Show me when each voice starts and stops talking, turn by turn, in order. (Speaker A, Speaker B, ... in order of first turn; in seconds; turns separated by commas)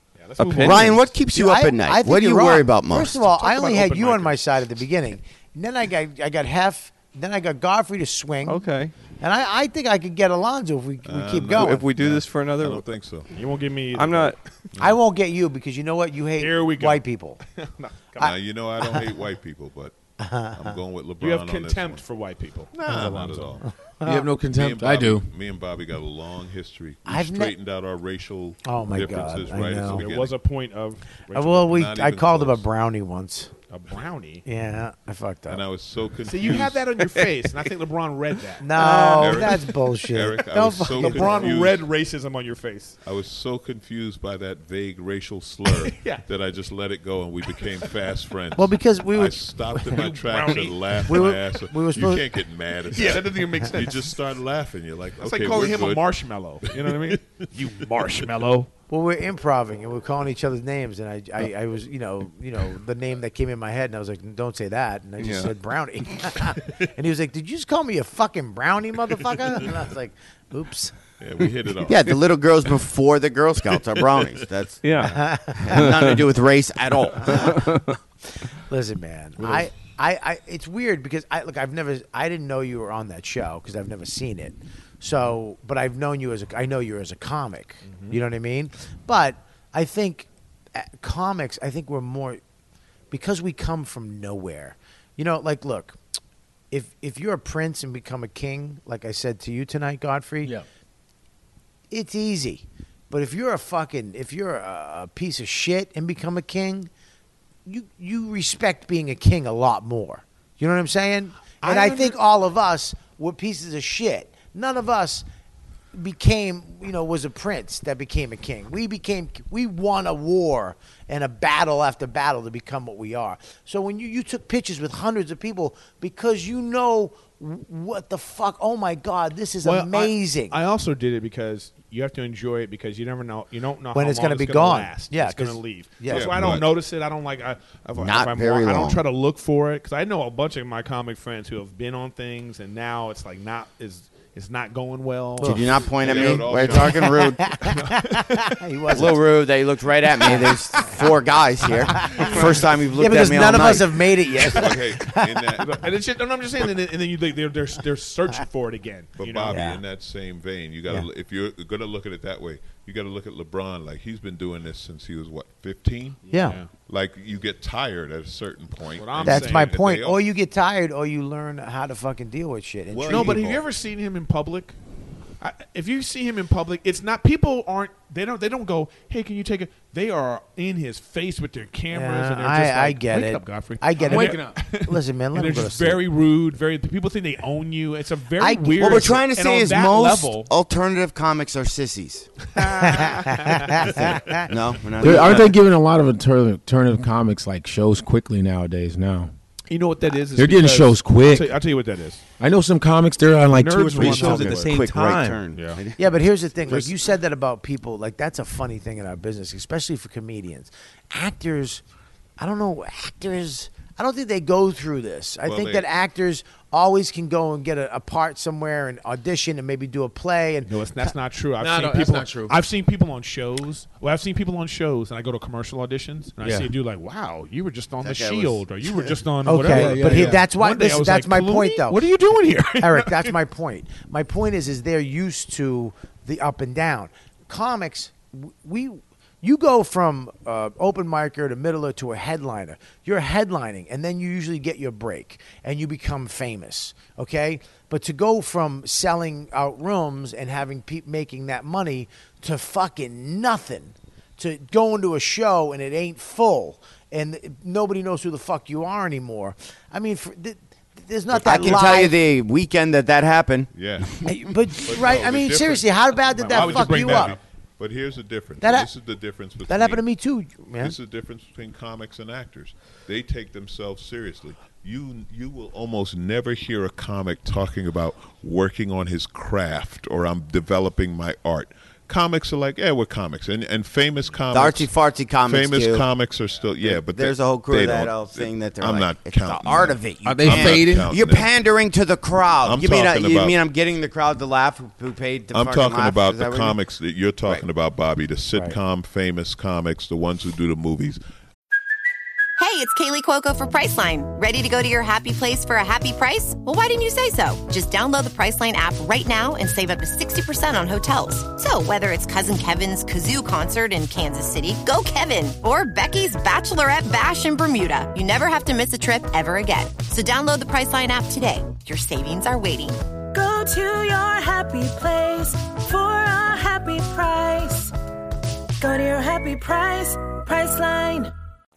Speaker A: 0.2-1.1, Speaker B: 0.4-1.1, Speaker C: 0.6-3.2, Speaker D: 1.3-8.6, Speaker A: 3.2-4.4, Speaker B: 8.4-8.9, Speaker D: 9.2-11.9, Speaker E: 11.1-13.3, Speaker B: 11.5-12.9, Speaker A: 13.3-14.4, Speaker B: 13.9-14.4, Speaker D: 14.8-17.4, Speaker A: 16.4-18.3, Speaker D: 18.2-19.0, Speaker E: 18.2-19.9, Speaker D: 20.2-20.8, Speaker E: 20.5-22.1, Speaker A: 21.2-23.6, Speaker E: 22.7-23.7, Speaker D: 22.9-24.3, Speaker F: 24.0-25.3, Speaker E: 24.5-30.3, Speaker D: 27.1-27.6, Speaker D: 28.6-30.1, Speaker A: 29.8-31.7, Speaker D: 31.3-33.5, Speaker E: 31.6-32.7, Speaker A: 33.7-34.4, Speaker D: 34.4-35.6, Speaker E: 35.5-37.0, Speaker A: 36.2-39.6, Speaker D: 38.6-41.6, Speaker E: 39.2-41.9, Speaker A: 40.9-43.0, Speaker E: 43.0-56.1, Speaker A: 45.7-46.3, Speaker D: 48.5-50.0, Speaker A: 49.9-51.2, Speaker D: 51.0-52.3, Speaker A: 52.9-54.1, Speaker A: 55.2-58.7, Speaker E: 56.6-57.5, Speaker D: 58.9-70.9, Speaker B: 65.2-65.5, Speaker E: 71.2-72.2, Speaker C: 71.9-77.8, Speaker E: 73.7-74.4, Speaker B: 74.8-76.2, Speaker D: 75.0-75.9, Speaker D: 78.7-92.4, Speaker A: 87.9-88.2, Speaker D: 93.1-96.0, Speaker D: 96.7-100.5, Speaker D: 101.9-106.9, Speaker D: 107.7-115.2, Speaker A: 111.6-112.2, Speaker D: 115.9-130.6, Speaker A: 129.6-146.3, Speaker D: 133.9-136.4, Speaker E: 136.1-136.7, Speaker C: 138.0-139.0, Speaker D: 145.4-149.3, Speaker C: 145.4-147.6, Speaker E: 146.0-147.1, Speaker A: 147.6-148.6, Speaker C: 148.9-154.1, Speaker D: 150.2-151.0, Speaker A: 152.0-152.7, Speaker D: 152.0-152.4, Speaker D: 152.9-155.4, Speaker E: 154.5-155.8, Speaker A: 155.6-159.6, Speaker E: 159.2-166.2, Speaker D: 159.5-159.8, Speaker A: 166.3-166.7, Speaker D: 166.3-166.6, Speaker E: 166.8-170.2, Speaker A: 168.9-169.8, Speaker D: 169.2-173.5, Speaker E: 172.9-173.6, Speaker A: 173.1-174.8, Speaker A: 175.4-190.5, Speaker D: 181.9-186.0, Speaker F: 184.0-184.6, Speaker D: 188.4-189.2, Speaker C: 188.8-192.3, Speaker A: 192.6-194.2, Speaker D: 192.6-194.5, Speaker C: 194.5-195.5, Speaker F: 195.0-199.3, Speaker A: 199.7-202.2, Speaker F: 200.4-201.6, Speaker F: 202.4-205.4, Speaker A: 203.5-204.7, Speaker C: 204.0-206.2, Speaker A: 205.5-205.8, Speaker D: 206.0-211.8, Speaker D: 212.4-221.1, Speaker E: 215.4-215.9, Speaker A: 220.7-233.3, Speaker F: 221.6-222.6, Speaker F: 226.4-226.7, Speaker C: 228.0-229.2, Speaker D: 229.4-232.0, Speaker F: 229.6-230.4, Speaker D: 232.8-262.1, Speaker E: 261.4-261.8, Speaker C: 261.4-263.7, Speaker E: 263.7-264.1, Speaker D: 264.2-267.4, Speaker E: 264.8-270.0, Speaker A: 266.4-267.4, Speaker D: 268.6-268.9, Speaker D: 269.7-270.9, Speaker E: 270.8-291.5, Speaker C: 284.5-286.1, Speaker C: 286.8-296.8, Speaker F: 290.2-291.1, Speaker E: 292.6-293.6, Speaker E: 295.5-301.2, Speaker G: 302.6-323.0, Speaker H: 323.3-327.9, Speaker H: 328.8-331.3